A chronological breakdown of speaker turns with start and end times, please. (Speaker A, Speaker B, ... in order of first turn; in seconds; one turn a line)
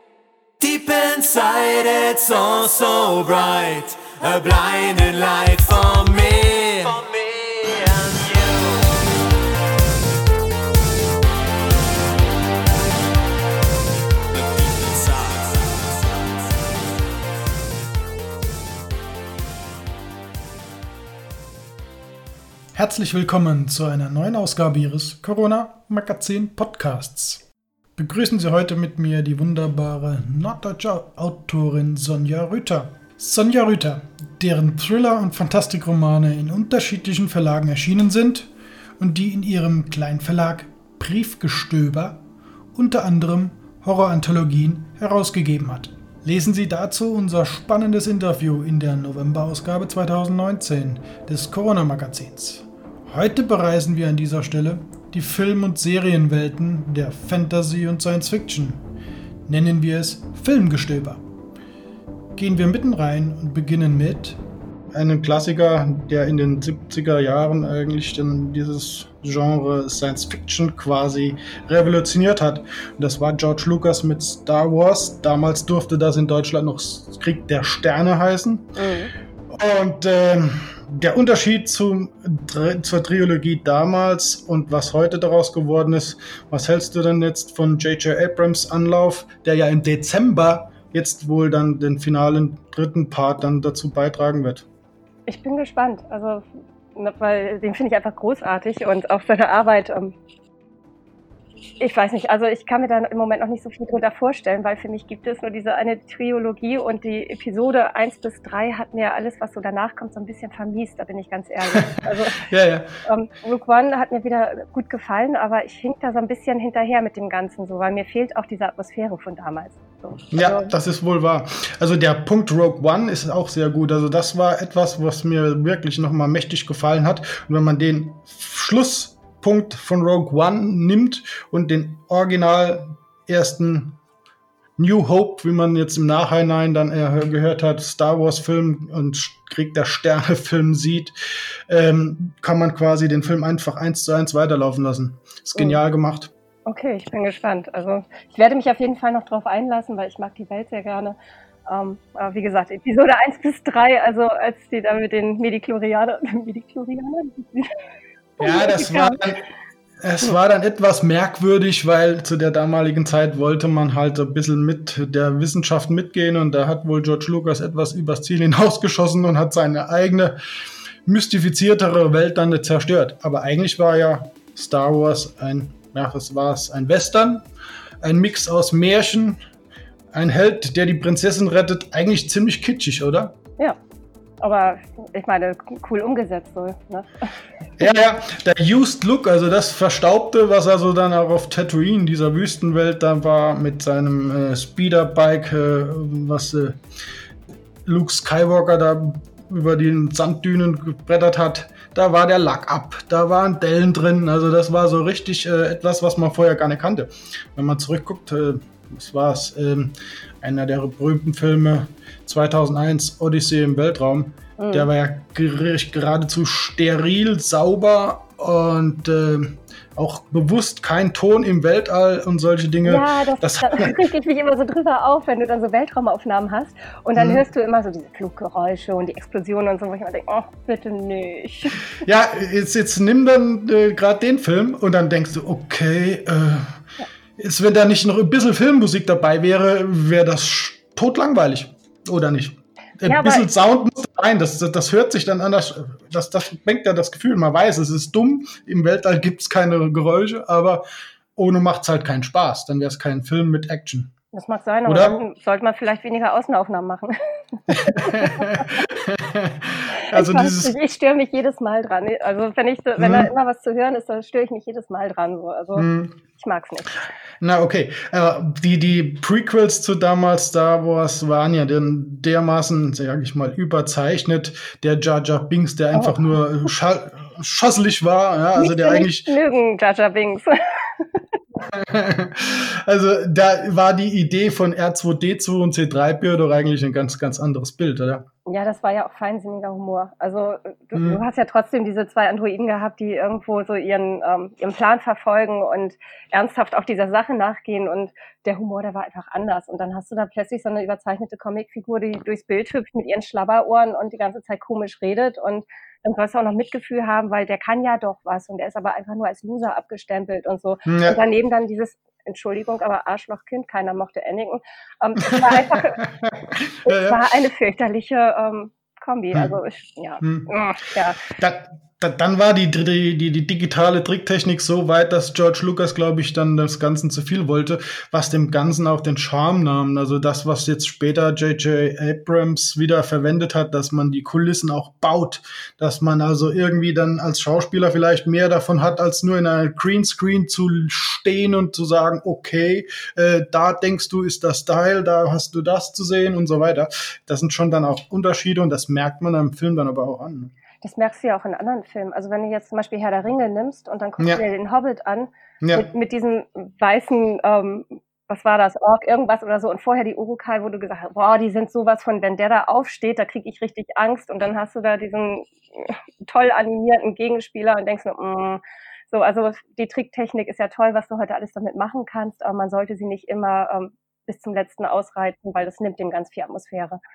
Speaker A: 0.6-8.9
Speaker A: 14.3-16.9
Speaker B: 22.7-27.4
Speaker B: 27.9-42.2
Speaker B: 42.7-58.9
Speaker B: 59.5-61.2
Speaker B: 62.4-64.4
Speaker B: 64.9-78.7
Speaker C: 78.8-79.1
Speaker B: 79.5-94.7
Speaker C: 95.3-96.4
Speaker C: 96.9-100.1
Speaker C: 101.8-112.4
Speaker B: 112.4-112.9
Speaker C: 113.0-120.7
Speaker B: 120.3-134.0
Speaker B: 134.8-141.1
Speaker B: 141.7-146.3
Speaker C: 146.7-151.2
Speaker C: 151.7-157.7
Speaker C: 158.4-159.2
Speaker B: 158.4-159.4
Speaker B: 160.0-170.4
Speaker B: 171.0-177.4
Speaker B: 178.0-179.4
Speaker B: 180.1-183.3
Speaker C: 184.4-187.3
Speaker B: 187.8-196.8
Speaker B: 197.8-224.0
Speaker C: 214.6-214.9
Speaker C: 222.8-231.8
Speaker B: 227.1-227.4
Speaker B: 232.0-236.8
Speaker B: 237.4-250.8
Speaker C: 243.0-243.5
Speaker B: 251.3-254.1
Speaker C: 254.3-257.1
Speaker B: 254.8-255.2
Speaker C: 257.6-258.9
Speaker B: 257.7-260.7
Speaker C: 260.1-267.0
Speaker B: 263.0-263.3
Speaker B: 265.8-266.2
Speaker B: 267.4-279.3
Speaker C: 275.9-276.2
Speaker C: 278.6-281.2
Speaker B: 281.5-288.2
Speaker C: 288.4-316.0
Speaker B: 290.9-291.2
Speaker B: 310.9-311.2
Speaker B: 315.3-317.2
Speaker C: 316.8-321.2
Speaker B: 320.2-320.5
Speaker B: 321.3-350.5
Speaker C: 350.8-377.0